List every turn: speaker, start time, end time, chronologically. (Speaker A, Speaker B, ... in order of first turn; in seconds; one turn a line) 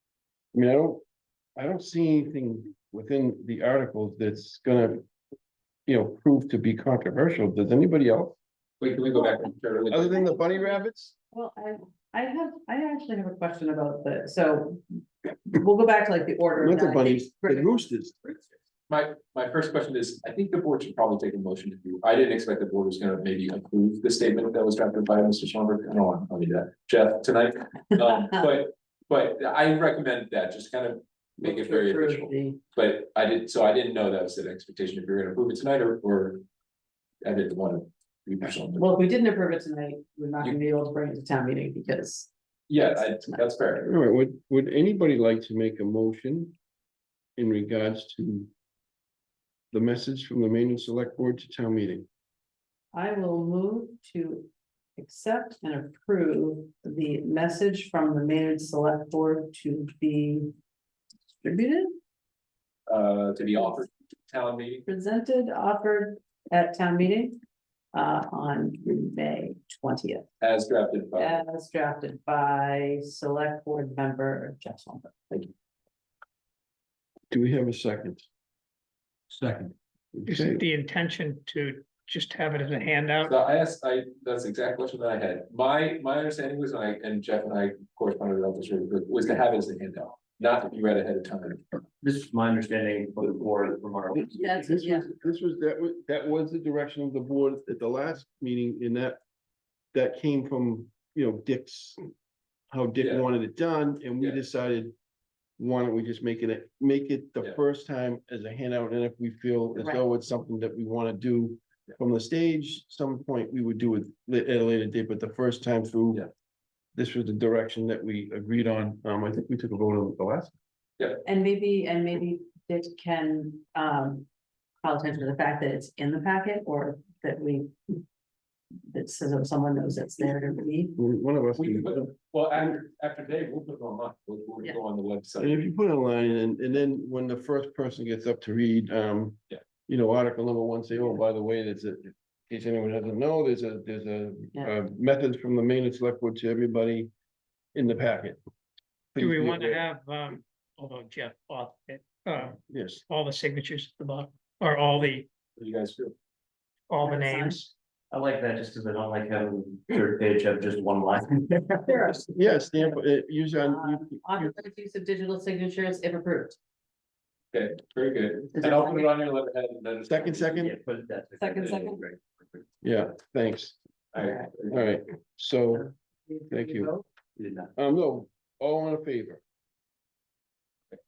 Speaker A: 0.5-1.0
Speaker A: 1.6-5.1
Speaker A: 5.9-8.4
Speaker B: 8.8-10.2
Speaker A: 9.9-11.2
Speaker C: 9.9-14.8
Speaker C: 15.5-18.6
Speaker A: 16.6-18.2
Speaker B: 18.9-36.4
Speaker C: 31.4-32.6
Speaker B: 37.2-38.9
Speaker C: 38.7-42.3
Speaker B: 42.7-43.9
Speaker C: 42.8-43.4
Speaker A: 43.8-46.5
Speaker A: 47.4-48.5
Speaker A: 49.7-52.1
Speaker C: 52.9-60.5
Speaker C: 61.4-61.9
Speaker B: 62.9-64.8
Speaker C: 64.9-67.4
Speaker C: 67.9-70.3
Speaker B: 70.4-71.4
Speaker C: 71.2-75.5
Speaker A: 77.3-78.3
Speaker A: 80.1-80.6
Speaker D: 80.3-83.3
Speaker B: 83.2-91.8
Speaker E: 92.0-94.6
Speaker A: 94.1-99.2
Speaker C: 94.3-95.1
Speaker A: 99.9-102.0
Speaker A: 102.7-105.0
Speaker A: 105.6-116.3
Speaker C: 109.8-110.0
Speaker A: 117.0-120.5
Speaker C: 121.2-124.3
Speaker C: 124.8-128.0
Speaker C: 128.9-131.0
Speaker A: 131.0-132.8
Speaker B: 131.6-135.6
Speaker A: 135.4-147.1
Speaker A: 147.8-148.4
Speaker A: 149.1-149.8
Speaker D: 149.2-155.3
Speaker A: 152.7-153.1
Speaker B: 155.6-156.2
Speaker D: 156.9-157.7
Speaker C: 157.0-157.7
Speaker E: 158.1-162.0
Speaker C: 161.9-163.0
Speaker A: 162.1-164.6
Speaker C: 163.6-166.6
Speaker B: 167.5-170.7
Speaker C: 168.6-169.1
Speaker A: 170.1-170.8
Speaker E: 170.6-172.6
Speaker C: 171.4-172.0
Speaker A: 172.8-173.8
Speaker B: 174.1-175.0
Speaker A: 174.7-175.9
Speaker C: 175.7-177.1
Speaker A: 176.5-176.9
Speaker E: 177.4-177.7
Speaker A: 177.8-179.4